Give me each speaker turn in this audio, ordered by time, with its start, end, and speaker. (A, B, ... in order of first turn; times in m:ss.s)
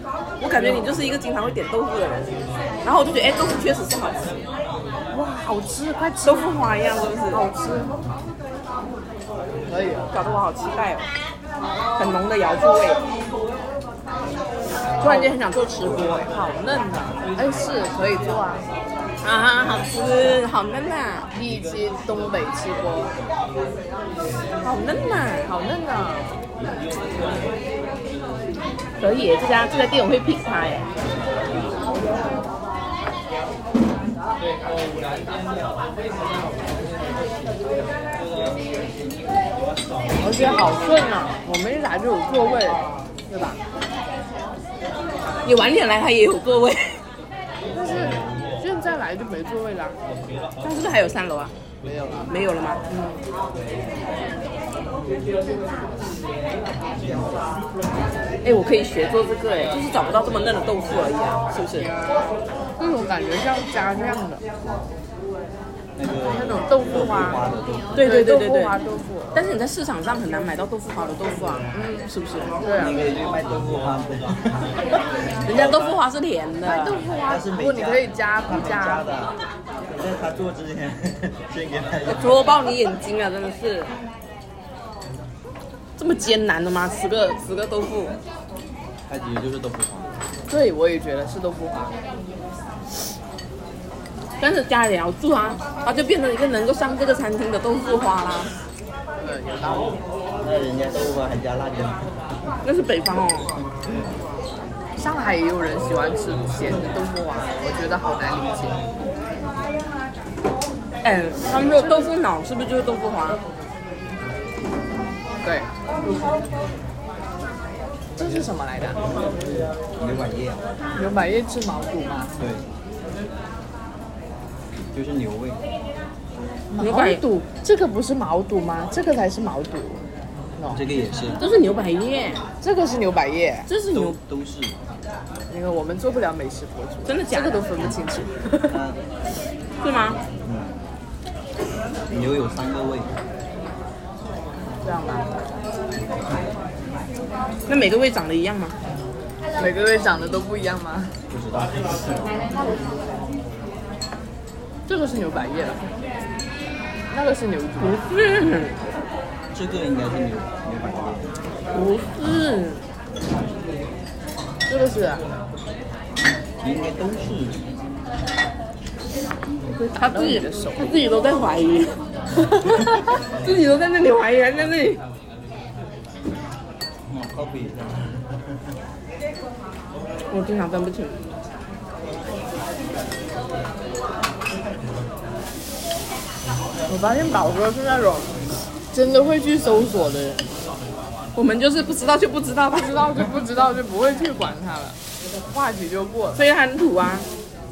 0:00.4-0:04.4 A
0:05.1-0:06.5 B
0:06.2-0:07.4 A
0:07.3-0:07.9 B
0:09.7-0:10.1 B
0:10.1-0:11.1 A
0:12.0-0:13.0 A
0:15.0-0:18.6 B
0:15.0-0:15.9 A
0:19.2-0:21.3 A
0:21.3-0:23.1 B
0:24.6-0:25.5 A
0:25.4-0:26.4 B
0:29.0-0:30.9 A
0:40.2-0:43.6 B
0:45.4-0:47.0 A
0:47.7-0:50.0 B
0:50.6-0:51.5 A
0:51.8-0:52.3 B
0:52.2-0:52.8 A
0:52.9-0:53.2 B
0:57.0-0:57.4 C
0:58.4-1:01.9 A
1:02.8-1:04.4 B
1:06.0-1:08.0 C
1:06.2-1:07.4 B
1:08.0-1:08.8 A
1:08.0-1:09.4 B
1:09.3-1:12.5 A
1:11.7-1:12.1 B
1:12.6-1:13.1 B
1:12.8-1:14.8 C
1:15.4-1:16.0 C
1:15.4-1:17.0 A
1:16.6-1:19.1 B
1:17.2-1:19.3 C
1:19.8-1:22.4 C
1:22.1-1:23.9 A
1:26.0-1:28.1 A
1:29.1-1:30.1 C
1:30.5-1:31.9 B
1:34.4-1:38.5 A
1:39.2-1:40.0 B
1:40.4-1:42.1 C
1:42.6-1:43.5 A
1:45.0-1:48.8 B
1:51.0-1:53.4 A
1:51.1-1:52.1 B
1:55.4-1:55.7 B
1:58.2-1:59.0 B
2:00.0-2:00.6 C
2:00.9-2:02.3 B
2:02.4-2:02.6 C
2:04.9-2:05.6 C
2:06.7-2:10.0 B
2:06.8-2:07.2 A
2:10.7-2:11.4 C
2:11.4-2:12.4 A
2:12.6-2:13.7 B
2:13.7-2:14.2 A
2:13.9-2:14.8 C
2:15.5-2:18.8 B
2:17.0-2:17.6 A
2:18.7-2:19.0 C
2:19.8-2:20.2 A
2:20.4-2:20.8 C
2:22.1-2:23.2 C
2:24.8-2:25.3 B
2:27.7-2:28.8 A
2:29.6-2:31.2 B
2:31.3-2:32.4 C
2:34.9-2:35.8 B
2:37.1-2:38.0 B
2:37.8-2:38.8 A
2:39.5-2:41.3 C
2:41.7-2:42.8 A
2:44.7-2:45.2 B
2:46.6-2:47.6 C
2:49.6-2:51.0 B
2:50.0-2:52.0 A
2:53.2-2:55.0 A
2:57.0-2:58.4 C
3:00.3-3:01.2 A
3:06.9-3:10.5 B
3:11.3-3:13.2 A
3:12.7-3:15.0 B
3:15.5-3:16.4 B
3:16.3-3:17.3 A